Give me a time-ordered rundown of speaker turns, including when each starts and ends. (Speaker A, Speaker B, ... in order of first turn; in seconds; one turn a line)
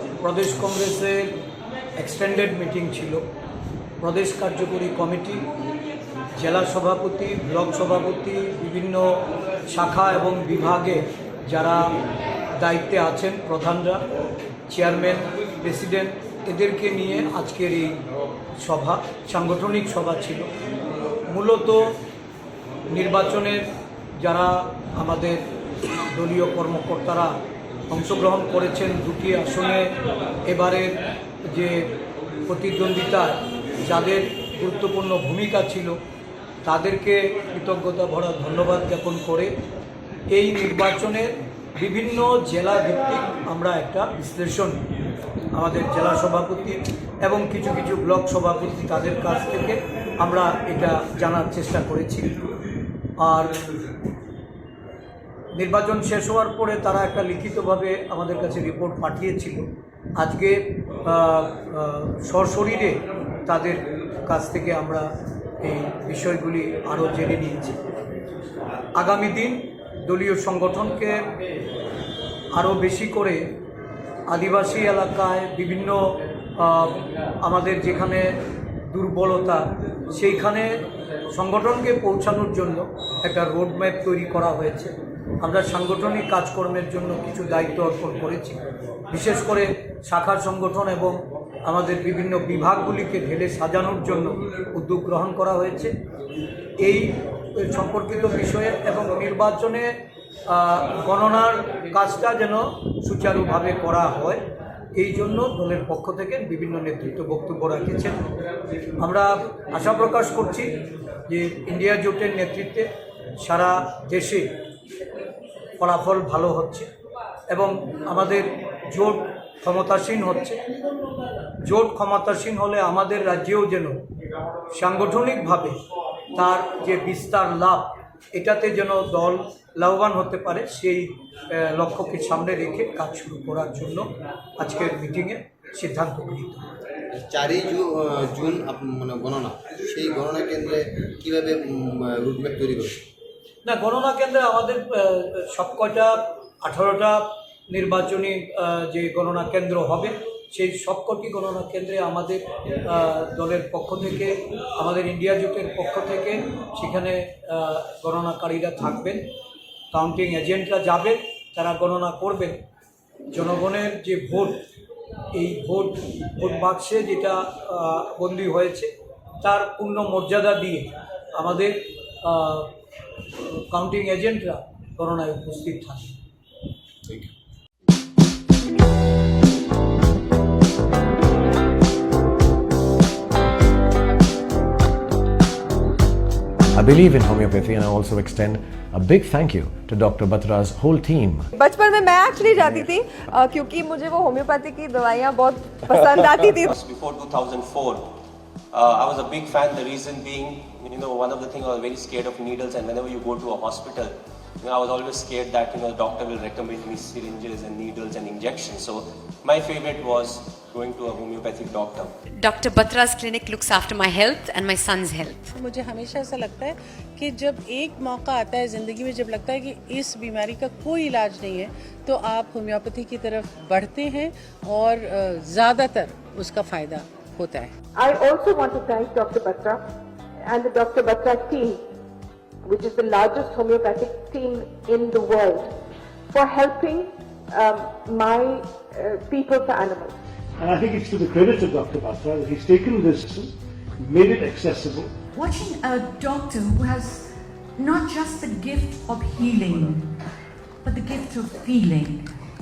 Speaker A: 0.2-1.3
Speaker A: 2.0-3.2
Speaker A: 4.0-5.5
Speaker A: 6.4-9.2
Speaker A: 9.7-11.9
Speaker A: 12.6-14.0
Speaker A: 14.7-17.9
Speaker A: 18.6-20.5
Speaker A: 21.3-21.9
Speaker A: 22.9-23.6
Speaker A: 24.2-25.4
Speaker A: 26.1-27.3
Speaker A: 27.9-29.9
Speaker A: 30.5-31.0
Speaker A: 31.5-31.9
Speaker A: 32.5-36.0
Speaker A: 36.6-39.5
Speaker A: 40.3-44.8
Speaker A: 45.5-52.3
Speaker A: 53.2-53.6
Speaker A: 55.6-59.7
Speaker A: 60.2-65.1
Speaker A: 65.6-67.8
Speaker A: 69.0-71.3
Speaker A: 72.5-73.4
Speaker A: 74.3-76.0
Speaker A: 76.6-78.3
Speaker A: 78.9-80.7
Speaker A: 81.3-95.9
Speaker A: 96.8-99.9
Speaker A: 100.5-104.4
Speaker A: 105.0-108.2
Speaker A: 109.0-110.7
Speaker A: 111.3-112.9
Speaker A: 113.4-114.5
Speaker A: 115.8-116.9
Speaker A: 117.5-120.6
Speaker A: 121.7-124.0
Speaker A: 124.7-125.8
Speaker A: 126.3-136.7
Speaker B: 137.2-143.0
Speaker A: 143.7-159.2
Speaker A: 159.9-162.6
Speaker A: 163.3-164.6
Speaker A: 165.3-168.9
Speaker A: 169.4-172.7
Speaker A: 173.7-176.2
Speaker C: 186.7-191.5
Speaker D: 191.6-196.7
Speaker E: 196.1-198.1
Speaker E: 198.7-212.1
Speaker F: 212.4-215.5
Speaker G: 215.5-227.7
Speaker H: 228.0-229.8
Speaker H: 230.5-231.8
Speaker H: 232.6-235.8
Speaker H: 236.3-240.2
Speaker I: 240.6-245.2
Speaker J: 245.3-250.1
Speaker J: 250.8-252.3